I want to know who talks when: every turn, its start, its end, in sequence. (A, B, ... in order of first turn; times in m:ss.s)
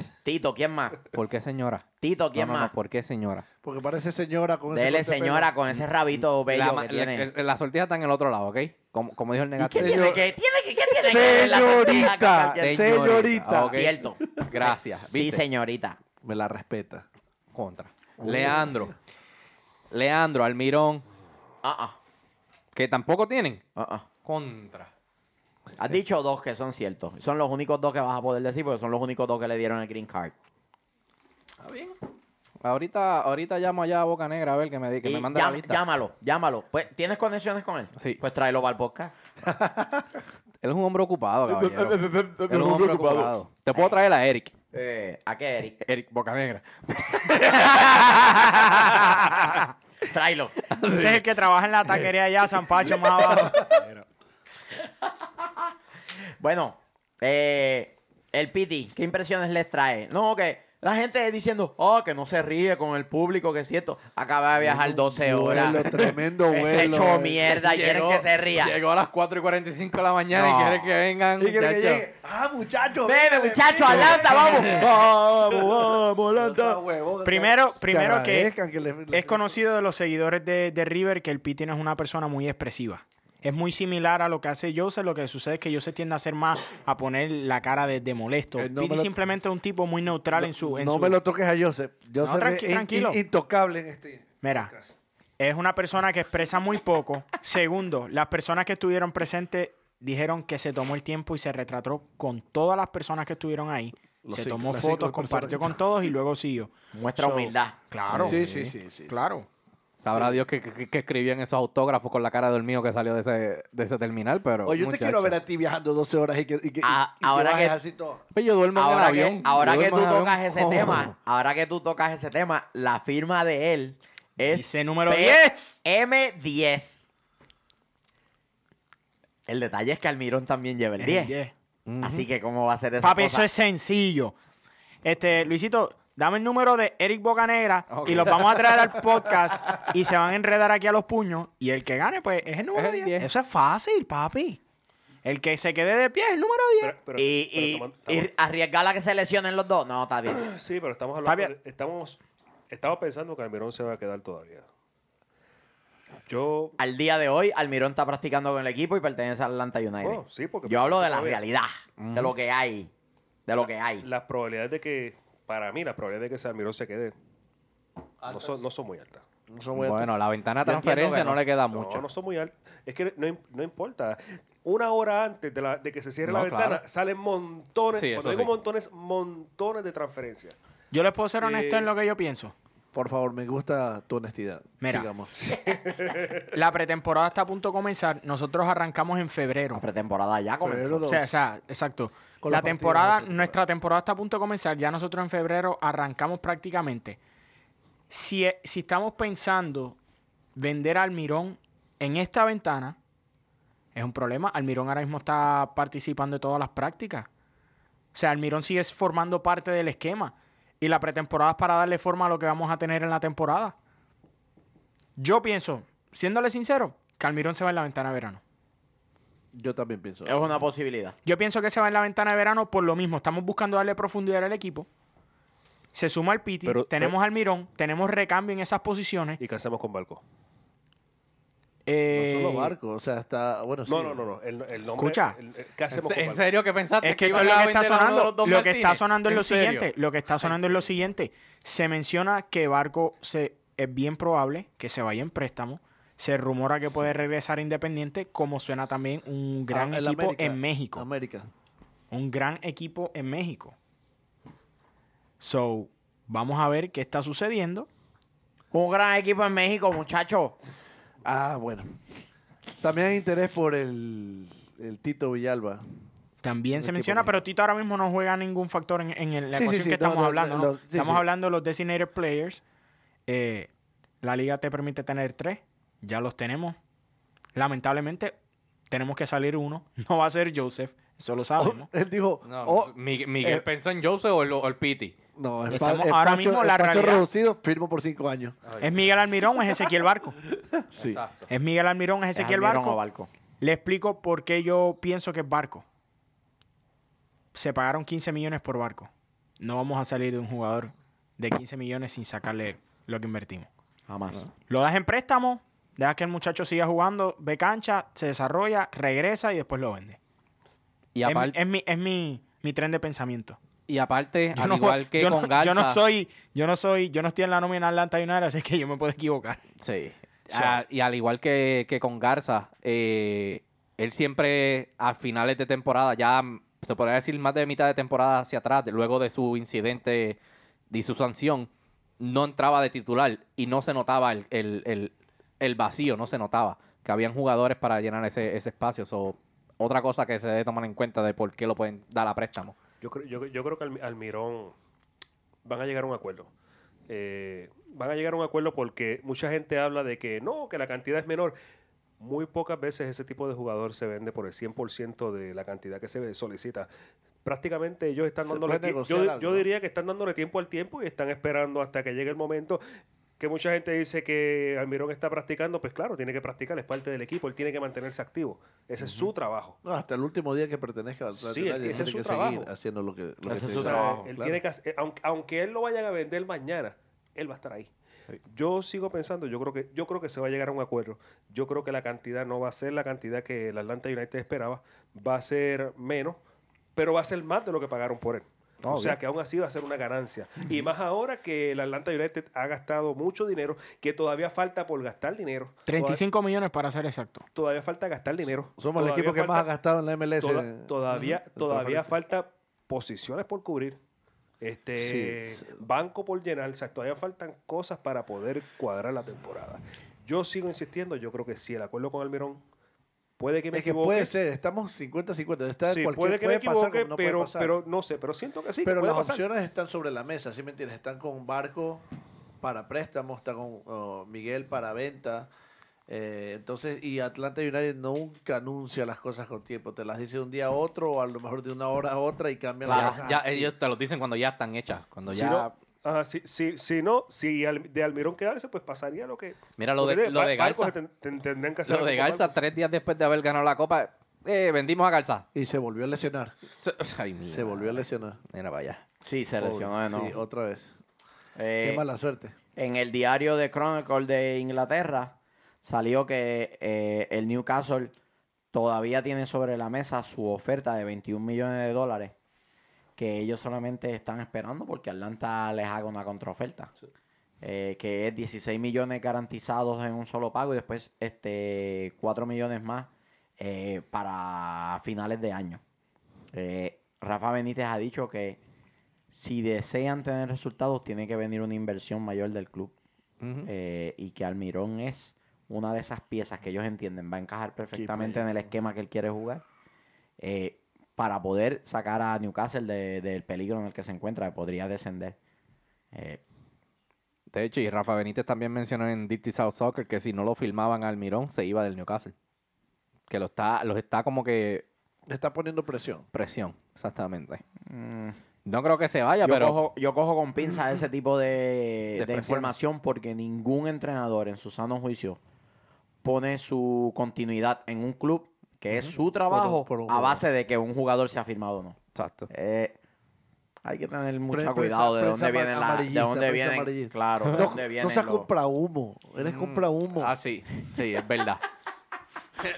0:00.2-0:01.0 A
0:01.1-0:03.4 B
0:02.0-0:02.7 A
0:03.6-0:05.5 C
0:04.7-0:07.3 A
0:06.5-0:10.2 B
0:09.6-0:13.1 A
0:09.8-0:10.2 C
0:10.9-0:14.5 C
0:12.6-0:15.4 B
0:13.6-0:16.0 A
0:16.2-0:17.1 C
0:17.5-0:18.9 B
0:18.2-0:18.8 C
0:19.9-0:21.0 B
0:21.6-0:22.0 A
0:22.7-0:23.6 B
0:23.8-0:24.1 A
0:24.2-0:24.9 B
0:25.8-0:30.3 A
0:31.6-0:32.0 B
0:32.6-0:35.8 B
0:35.0-0:39.1 A
0:39.5-0:39.9 C
0:40.6-0:44.5 B
0:41.5-0:42.0 C
0:42.5-0:44.1 A
0:42.6-0:43.3 C
0:44.7-0:45.8 A
0:45.8-0:49.4 B
0:47.5-0:49.2 A
0:50.0-0:50.6 A
0:50.7-0:51.2 B
0:50.8-0:53.8 D
0:53.7-0:54.1 E
0:55.4-0:55.7 A
0:56.4-1:08.8 A
1:04.6-1:07.5 C
1:05.7-1:06.2 B
1:07.5-1:12.1 B
1:10.3-1:10.9 A
1:11.4-1:19.5 C
1:13.1-1:14.9 A
1:14.7-1:16.8 E
1:17.2-1:18.5 D
1:19.1-1:31.2 D
1:28.6-1:29.1 C
1:30.3-1:34.8 C
1:32.2-1:33.2 D
1:34.4-1:34.7 D
1:35.4-1:49.5 D
1:44.2-1:45.8 C
1:46.9-1:47.8 A
1:48.1-1:48.7 B
1:48.1-1:49.2 C
1:50.0-1:55.4 B
1:50.1-1:50.4 C
1:54.6-1:58.2 C
1:56.8-1:57.8 A
1:58.3-2:01.1 B
1:58.8-2:07.1 A
2:04.5-2:05.8 D
2:09.5-2:11.3 A
2:11.0-2:11.5 D
2:11.8-2:12.3 B
2:12.0-2:13.5 A
2:13.0-2:14.3 D
2:15.0-2:24.6 D
2:17.9-2:18.9 B
2:22.7-2:23.3 B
2:25.2-2:26.9 D
2:26.8-2:28.3 E
2:27.2-2:30.4 A
2:30.3-2:32.2 E
2:31.2-2:31.5 D
2:32.7-2:34.7 E
2:36.3-2:36.8 E
2:36.8-2:42.9 A
2:40.0-2:41.4 E
2:42.0-2:42.3 B
2:43.4-2:44.1 A
2:44.0-2:47.1 E
2:48.2-2:49.2 E
2:49.5-2:50.1 C
2:49.8-2:52.1 B
2:50.6-2:51.4 A
2:51.7-3:00.6 E
2:56.2-2:56.8 B
2:57.9-2:58.5 B
3:00.9-3:02.5 D
3:01.4-3:01.9 E
3:02.9-3:05.5 C
3:04.8-3:05.2 D
3:05.4-3:06.5 E
3:06.5-3:09.8 D
3:09.7-3:11.1 A
3:10.6-3:11.3 C
3:11.1-3:17.2 D
3:12.4-3:13.6 C
3:18.1-3:20.0 D
3:20.6-3:23.0 D
3:23.9-3:27.3 D
3:28.1-3:33.7 D
3:35.2-3:38.4 D
3:39.5-3:40.6 C
3:40.3-3:41.2 A
3:41.2-3:44.9 D
3:45.9-3:49.4 D
3:46.6-3:47.2 E
3:49.4-3:50.2 E
3:51.8-3:52.7 D
3:52.1-3:54.2 C
3:53.9-3:56.6 E
3:55.0-3:55.3 D
3:55.9-3:59.9 B
3:57.0-4:11.0 D
4:09.7-4:11.5 C
4:12.1-4:13.7 D
4:15.4-4:17.9 D
4:18.7-4:20.6 A
4:21.2-4:22.0 C
4:22.8-4:25.8 C
4:26.4-4:32.6 D
4:26.7-4:27.4 C
4:29.5-4:31.2 C
4:33.3-4:33.7 D
4:34.2-4:36.8 D
4:37.6-4:38.3 D
4:38.9-4:41.9 D
4:41.6-4:43.7 C
4:42.4-4:45.2 B
4:45.4-4:48.6 C
4:45.7-4:47.2 D
4:48.7-4:48.9 B
4:48.8-4:50.4 D
4:50.5-4:51.2 C
4:51.0-4:51.5 B
4:51.5-4:53.0 D
4:52.3-4:53.3 A
4:53.6-4:55.8 D
4:57.5-5:03.7 D
5:04.1-5:04.5 A
5:04.7-5:10.2 D
5:11.2-5:11.6 B
5:11.2-5:13.6 D
5:13.9-5:16.0 B
5:14.6-5:19.6 D
5:19.8-5:30.4 B
5:20.5-5:20.8 D
5:30.9-5:42.7 B
5:43.0-5:44.7 E
5:45.6-5:46.5 E
5:47.1-5:51.6 E
5:52.2-5:56.9 E
5:57.4-6:02.8 E
5:58.4-5:59.7 C
6:03.4-6:09.8 E
6:09.8-6:14.6 C
6:11.4-6:12.7 E
6:13.4-6:14.3 A
6:13.7-6:17.9 E
6:18.5-6:26.4 E
6:27.0-6:36.2 E
6:28.8-6:29.2 B
6:35.9-6:37.4 D
6:37.5-6:39.7 E
6:38.8-6:42.1 C
6:40.4-6:44.0 E
6:44.6-6:52.6 E
6:45.0-6:45.8 C
6:53.4-6:54.3 E
6:53.7-6:57.7 C
6:55.8-6:59.4 E
6:58.8-7:02.0 C
7:02.6-7:05.5 C
7:06.1-7:13.7 C
7:12.8-7:13.2 A
7:12.8-7:15.7 B
7:15.3-7:22.6 E
7:19.8-7:20.9 B
7:21.8-7:25.4 B
7:25.5-7:26.5 C
7:26.8-7:29.0 B
7:27.5-7:28.4 C
7:29.2-7:30.4 A
7:29.6-7:31.0 C
7:31.6-7:32.0 A
7:31.8-7:32.6 C
7:32.8-7:38.1 A
7:38.7-7:42.3 A
7:43.2-7:46.9 A
7:47.6-7:55.8 A
7:56.5-7:58.6 A
7:59.3-8:02.9 A
8:03.4-8:03.7 B
8:03.6-8:09.6 A
8:07.9-8:08.5 C
8:10.4-8:15.4 A
8:16.1-8:16.4 A
8:17.5-8:22.3 B
8:23.3-8:24.8 B
8:25.3-8:26.3 C
8:26.3-8:27.6 B
8:27.8-8:28.4 A
8:28.6-8:29.8 B
8:29.4-8:35.4 A
8:32.2-8:32.7 B
8:36.2-8:42.0 A
8:39.5-8:40.4 C
8:42.1-8:42.5 B
8:42.5-8:43.0 A
8:43.8-8:48.5 A
8:44.5-8:50.3 C
8:49.4-8:51.6 B